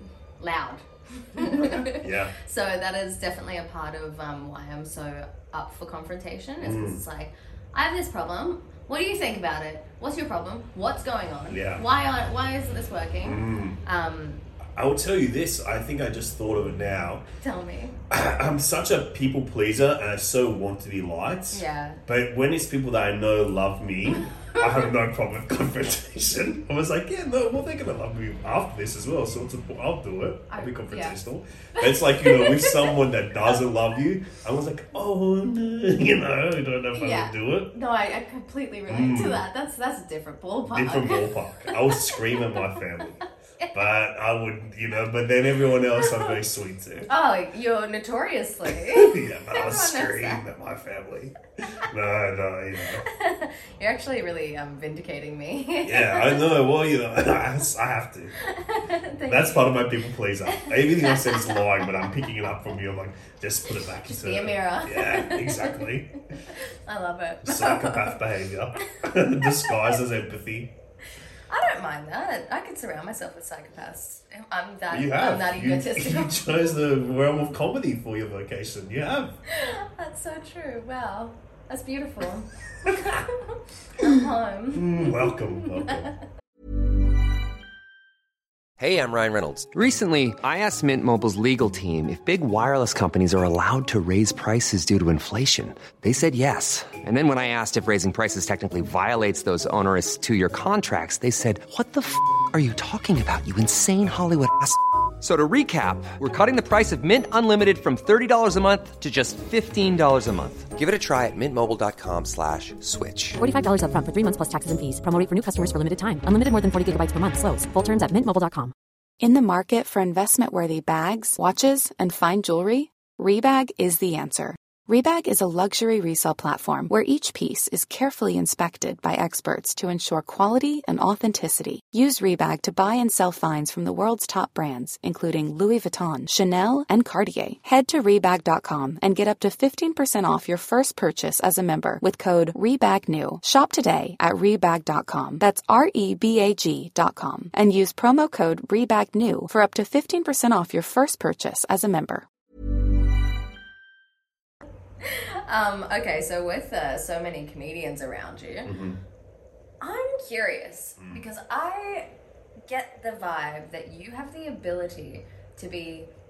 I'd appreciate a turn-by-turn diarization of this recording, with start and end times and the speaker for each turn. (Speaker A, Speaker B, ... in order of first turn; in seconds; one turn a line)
Speaker A: 0.4-14.4
Speaker B: 1.4-2.3
Speaker B: 6.6-7.0
Speaker B: 11.5-11.8
Speaker B: 13.2-13.8
Speaker B: 14.8-17.2
Speaker A: 17.4-17.9
Speaker B: 18.1-37.7
Speaker A: 21.5-22.0
Speaker A: 24.5-24.9
Speaker A: 30.5-31.1
Speaker A: 31.8-33.6
Speaker A: 36.9-42.5
Speaker B: 38.9-39.4
Speaker B: 40.7-47.1
Speaker A: 43.6-43.9
Speaker A: 46.0-46.3
Speaker A: 47.1-50.4
Speaker B: 48.8-53.0
Speaker A: 53.1-56.4
Speaker B: 55.8-58.3
Speaker A: 58.4-59.8
Speaker B: 59.3-66.1
Speaker A: 60.5-62.1
Speaker A: 64.1-65.9
Speaker A: 66.5-68.2
Speaker B: 67.4-70.7
Speaker A: 71.5-76.5
Speaker B: 74.9-79.3
Speaker A: 79.5-86.1
Speaker B: 84.7-86.1
Speaker C: 88.8-113.4
Speaker D: 113.4-118.7
Speaker E: 119.2-152.2
Speaker A: 155.0-158.7
Speaker B: 158.6-159.0
Speaker A: 159.8-162.1
Speaker B: 161.0-161.2
Speaker A: 162.7-166.1